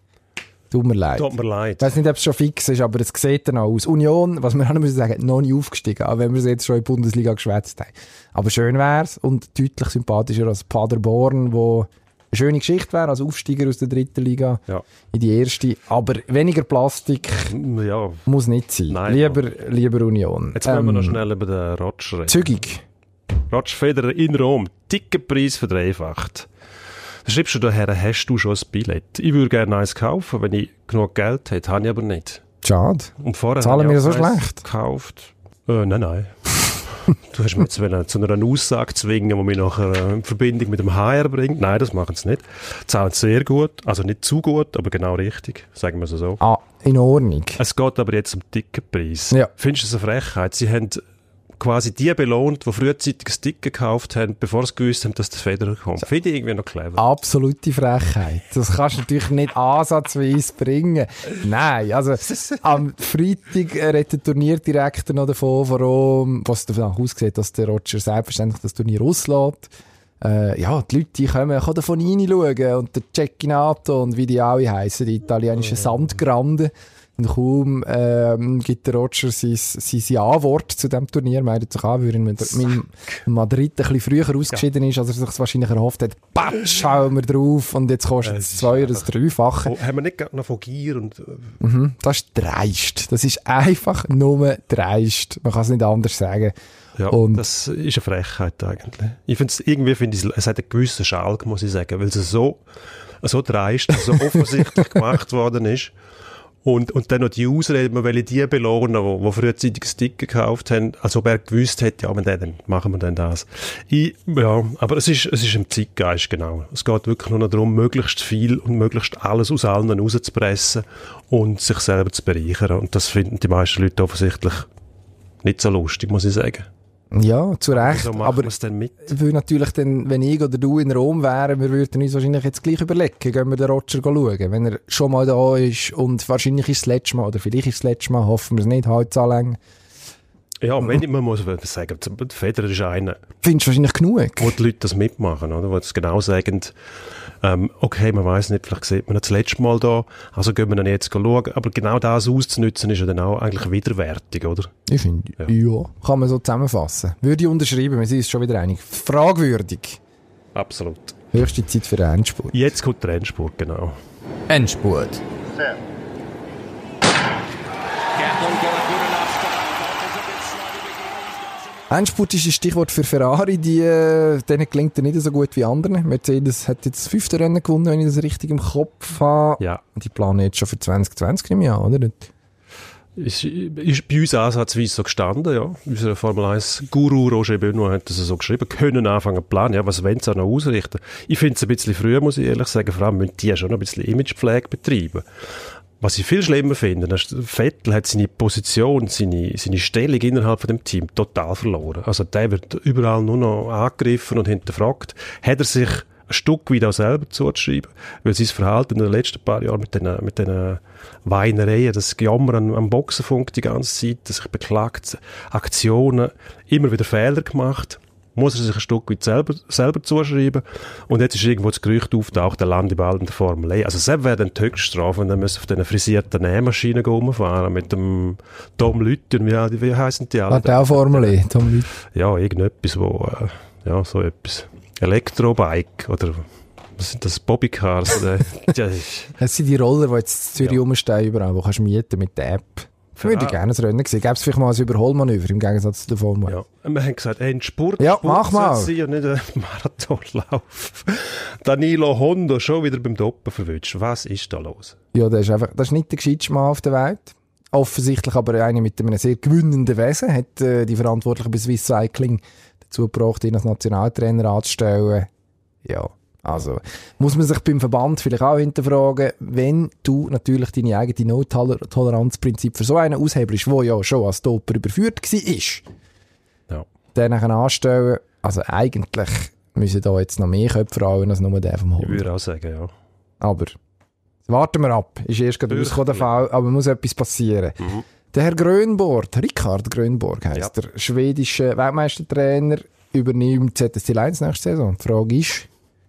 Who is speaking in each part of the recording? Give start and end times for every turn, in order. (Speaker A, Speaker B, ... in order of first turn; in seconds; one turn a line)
Speaker A: 0.7-17.5
Speaker B: 1.1-2.0
Speaker B: 17.5-18.2
Speaker A: 18.2-21.2
Speaker B: 18.9-19.4
Speaker B: 20.5-22.6
Speaker A: 22.3-22.8
Speaker B: 23.5-26.5
Speaker B: 27.2-32.4
Speaker A: 32.6-34.6
Speaker B: 33.2-46.4
Speaker A: 46.4-47.6
Speaker B: 47.6-51.0
Speaker B: 51.6-57.0
Speaker A: 57.0-89.7
Speaker B: 88.2-89.1
Speaker B: 89.6-91.6
Speaker A: 91.6-96.5
Speaker B: 97.0-102.6
Speaker A: 97.1-97.4
Speaker B: 103.2-105.9
Speaker A: 104.5-104.8
Speaker B: 106.6-124.7
Speaker B: 125.4-126.7
Speaker A: 127.1-139.6
Speaker B: 127.7-129.1
Speaker B: 140.6-143.2
Speaker A: 143.4-144.5
Speaker B: 144.4-146.7
Speaker B: 147.4-154.7
Speaker A: 154.9-160.0
Speaker B: 160.5-161.2
Speaker A: 161.3-162.7
Speaker B: 162.5-164.0
Speaker C: 164.5-165.2
Speaker C: 168.2-171.5
Speaker A: 171.9-182.3
Speaker B: 183.2-195.2
Speaker B: 196.0-231.4
Speaker A: 230.5-231.9
Speaker B: 231.9-239.3
Speaker A: 239.4-246.6
Speaker B: 243.2-243.6
Speaker B: 246.4-254.9
Speaker A: 248.0-248.9
Speaker A: 255.1-265.3
Speaker A: 265.8-275.9
Speaker A: 277.1-282.2
Speaker B: 282.0-282.9
Speaker A: 283.4-283.8
Speaker A: 284.5-295.7
Speaker B: 285.7-286.3